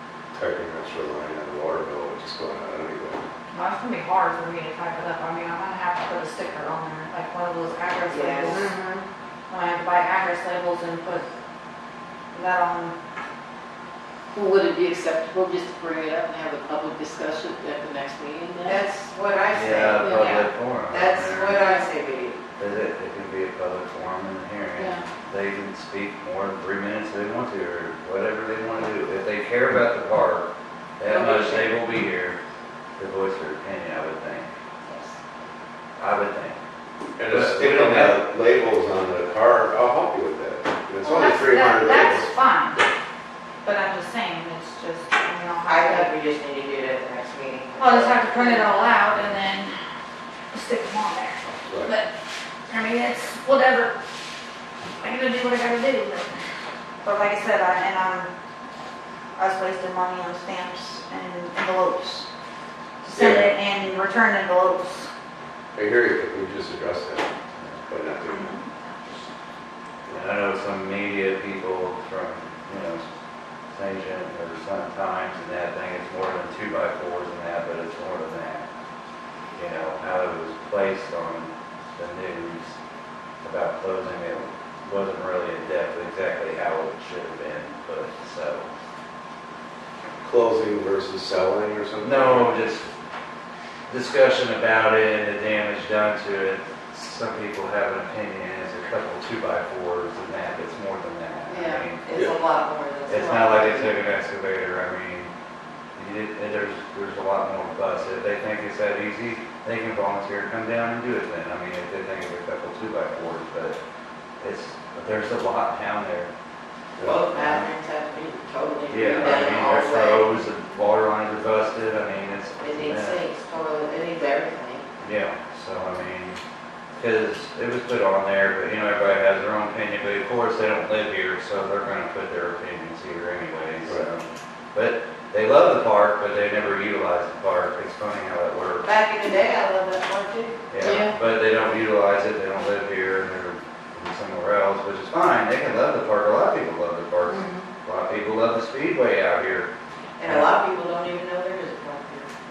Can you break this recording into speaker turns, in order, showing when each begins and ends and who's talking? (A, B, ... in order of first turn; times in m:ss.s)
0:00.3-0:03.2 A
0:03.5-0:08.8 B
0:08.1-0:08.7 C
0:09.5-0:11.3 B
0:12.3-0:12.9 B
0:14.3-0:18.8 D
0:18.6-0:20.3 C
0:19.5-0:21.6 E
0:20.0-0:20.4 D
0:20.9-0:22.4 C
0:21.6-0:21.9 B
0:22.6-0:32.4 E
0:31.1-0:31.7 D
0:33.0-0:34.5 E
0:36.0-0:36.6 E
0:37.2-0:42.9 A
0:37.2-0:38.2 E
0:41.0-0:42.8 B
0:43.6-0:46.1 B
0:45.6-0:49.0 C
0:47.8-0:49.8 B
0:50.5-0:52.1 B
0:51.7-0:51.9 A
0:52.7-0:54.0 B
0:55.0-0:56.4 B
0:57.0-0:58.3 B
0:59.4-1:02.3 B
1:03.0-1:05.1 B
1:03.1-1:03.5 A
1:05.7-1:07.3 A
1:07.8-1:08.6 A
1:08.3-1:09.1 B
1:10.1-1:13.0 E
1:13.7-1:18.6 E
1:19.5-1:22.7 E
1:23.4-1:28.7 E
1:30.2-1:32.6 A
1:32.0-1:32.9 E
1:33.9-1:42.0 E
1:41.5-1:41.8 D
1:42.0-1:44.0 C
1:43.1-1:45.3 E
1:46.0-1:53.8 E
1:54.4-1:56.3 E
1:57.0-2:00.4 C
1:57.0-1:57.7 E
1:58.9-2:03.2 E
2:02.6-2:04.8 C
2:05.0-2:06.4 E
2:06.9-2:18.8 E
2:18.8-2:20.7 C
2:20.7-2:29.7 E
2:20.8-2:21.2 D
2:27.3-2:27.6 D
2:30.2-2:32.3 C